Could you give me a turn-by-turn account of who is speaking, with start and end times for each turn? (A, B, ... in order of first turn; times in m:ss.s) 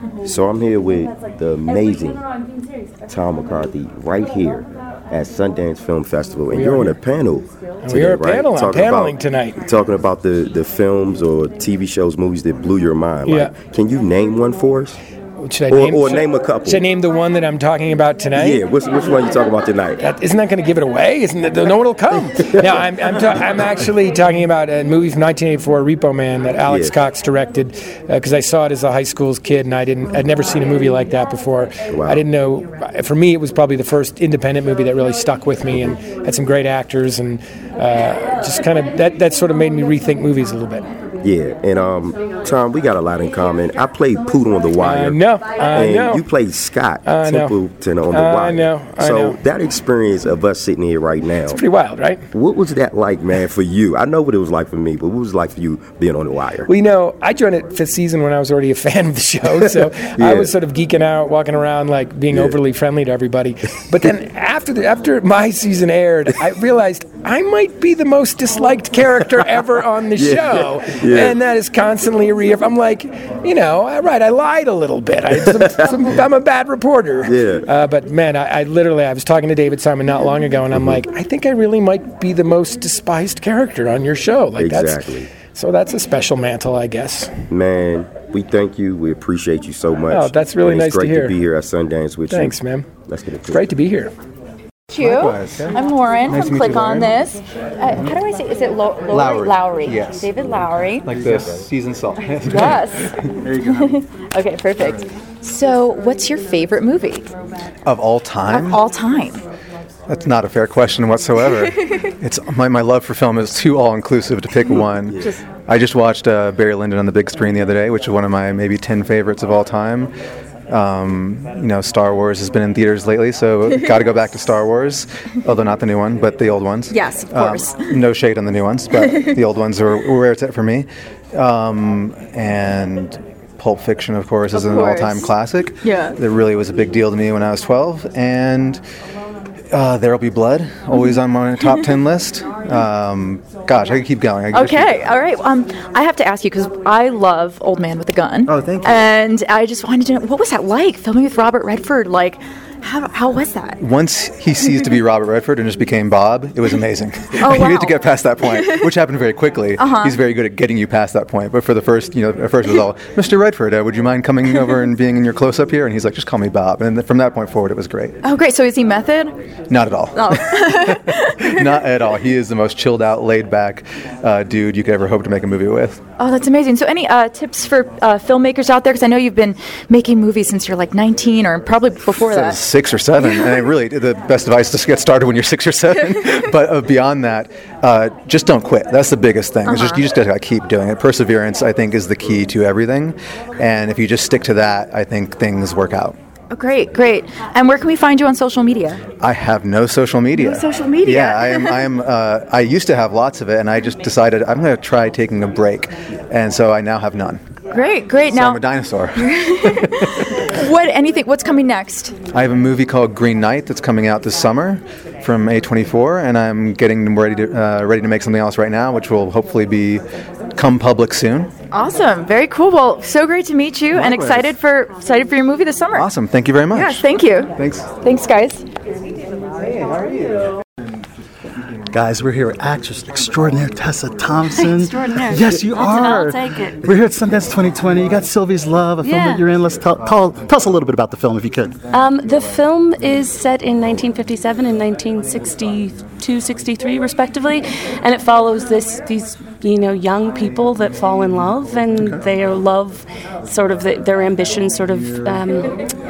0:00.2-0:02.2 A
0:03.1-0:15.0 A
0:06.5-0:07.0 B
0:07.8-0:09.6 B
0:13.2-0:13.5 B
0:15.4-0:18.6 B
0:15.7-0:16.9 A
0:18.3-0:20.0 A
0:20.0-0:40.9 B
0:22.1-0:23.2 A
0:26.6-0:27.0 A
0:31.9-0:32.2 A
0:41.2-0:45.2 A
0:44.8-0:46.2 B
0:45.7-0:51.6 A
0:47.0-0:49.4 B
0:51.5-0:52.2 B
0:52.3-0:56.7 A
0:56.6-1:27.3 B
0:59.5-1:00.5 A
1:02.3-1:02.6 A
1:09.3-1:11.4 A
1:15.6-1:16.0 A
1:17.2-1:17.7 A
1:20.7-1:21.0 A
1:24.6-1:25.3 A
1:27.5-1:32.6 A
1:30.1-1:31.4 B
1:32.3-1:32.9 B
1:33.1-1:33.7 A
1:33.5-1:34.1 B
1:34.9-1:41.1 C
1:35.0-1:35.7 D
1:36.3-1:37.2 D
1:39.1-1:40.3 D
1:41.0-1:43.4 D
1:42.4-1:47.3 C
1:47.8-1:48.8 D
1:48.5-1:49.4 C
1:50.1-2:00.1 D
2:00.7-2:18.8 D
2:06.9-2:07.9 C
2:09.0-2:09.3 C
2:14.5-2:15.3 C
2:15.8-2:16.2 C
2:19.7-2:25.0 D
2:24.5-2:33.8 C
2:28.4-2:29.1 D
2:33.8-2:48.2 D
2:37.4-2:38.8 C
2:39.8-2:40.2 C
2:48.2-2:49.3 C
2:49.7-2:56.0 D
2:50.2-2:51.6 C
2:56.2-3:02.6 C
3:02.1-3:16.2 D
3:03.2-3:03.6 C
3:09.6-3:10.0 C
3:16.5-3:19.0 C
3:19.2-3:27.4 D
3:20.3-3:21.8 C
3:27.7-3:28.6 C
3:28.3-3:30.3 D
3:29.2-3:32.1 C
3:32.3-3:41.5 D
3:41.7-3:46.0 C
3:43.9-3:44.5 D
3:45.9-3:47.9 D
3:46.7-3:48.6 C
3:51.9-4:01.7 E
3:54.5-3:56.8 F
3:59.0-3:59.4 F
4:01.9-4:15.7 F